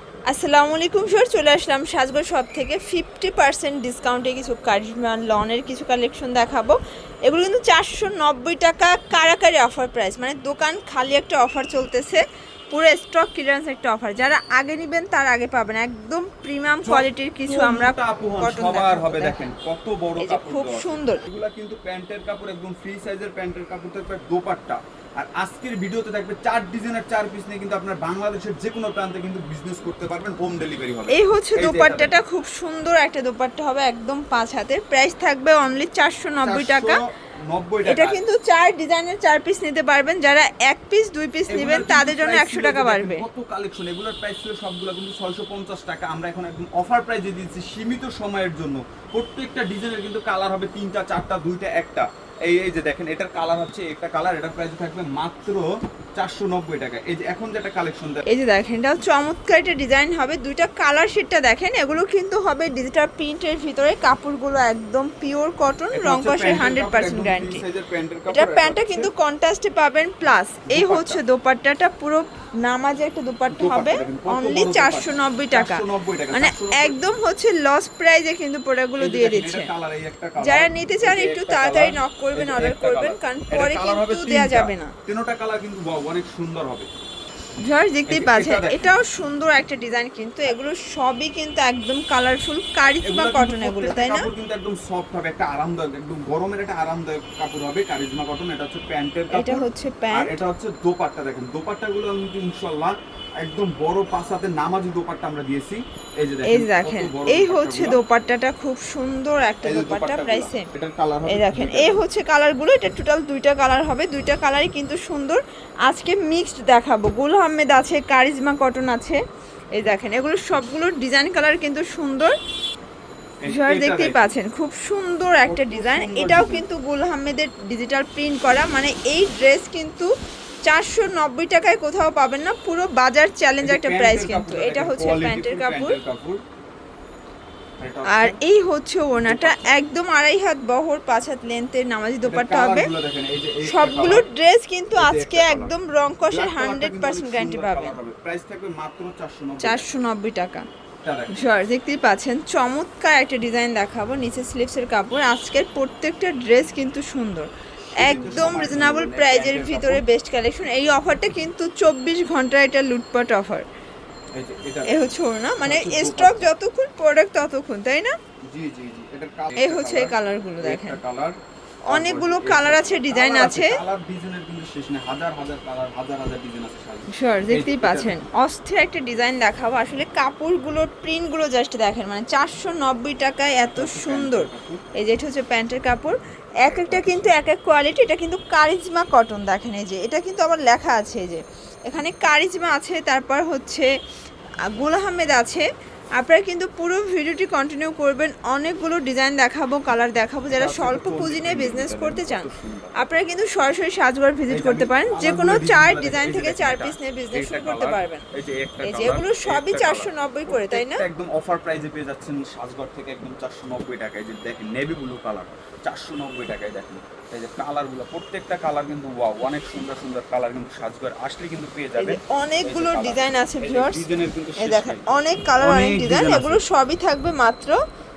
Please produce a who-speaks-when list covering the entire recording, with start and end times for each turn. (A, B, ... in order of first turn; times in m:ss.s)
0:00.3-0:12.2 A
0:12.7-0:19.4 A
0:16.8-0:32.2 B
0:20.2-0:21.2 A
0:31.1-0:37.0 A
0:36.4-0:37.0 B
0:37.5-0:38.2 B
0:37.8-0:43.2 A
0:41.5-0:58.2 B
0:58.2-1:07.6 A
1:05.9-1:09.1 B
1:08.3-1:19.7 A
1:10.7-1:11.2 B
1:13.5-1:17.0 B
1:19.0-1:26.9 B
1:20.4-1:24.9 A
1:27.6-1:34.3 A
1:28.1-1:28.9 B
1:33.1-1:48.0 B
1:39.3-1:40.3 A
1:46.4-1:50.7 A
1:49.6-1:52.0 B
1:51.3-1:59.2 A
1:59.8-2:02.3 A
2:03.4-2:04.3 B
2:03.4-2:10.1 A
2:05.4-2:06.6 B
2:10.7-2:16.0 A
2:13.6-2:16.4 B
2:17.8-2:18.4 B
2:18.1-2:22.9 A
2:19.2-2:19.8 B
2:22.2-2:24.2 B
2:23.6-2:28.0 A
2:24.9-2:25.7 B
2:26.3-2:29.9 B
2:29.6-2:30.6 A
2:31.0-2:31.5 B
2:31.3-2:37.5 A
2:38.0-2:40.0 B
2:38.0-2:43.6 A
2:44.4-2:46.5 B
2:44.9-2:48.1 A
2:48.5-2:51.3 B
2:49.6-2:51.0 A
2:51.8-2:53.8 A
2:51.9-2:58.2 B
2:57.1-3:13.9 A
3:03.7-3:04.8 B
3:06.6-3:07.4 B
3:14.7-3:15.6 A
3:16.2-3:22.4 A
3:20.5-3:23.1 B
3:23.0-3:28.2 A
3:24.5-3:45.1 B
3:28.8-3:31.0 A
3:42.0-3:44.0 A
3:44.6-3:47.7 A
3:45.6-3:46.6 B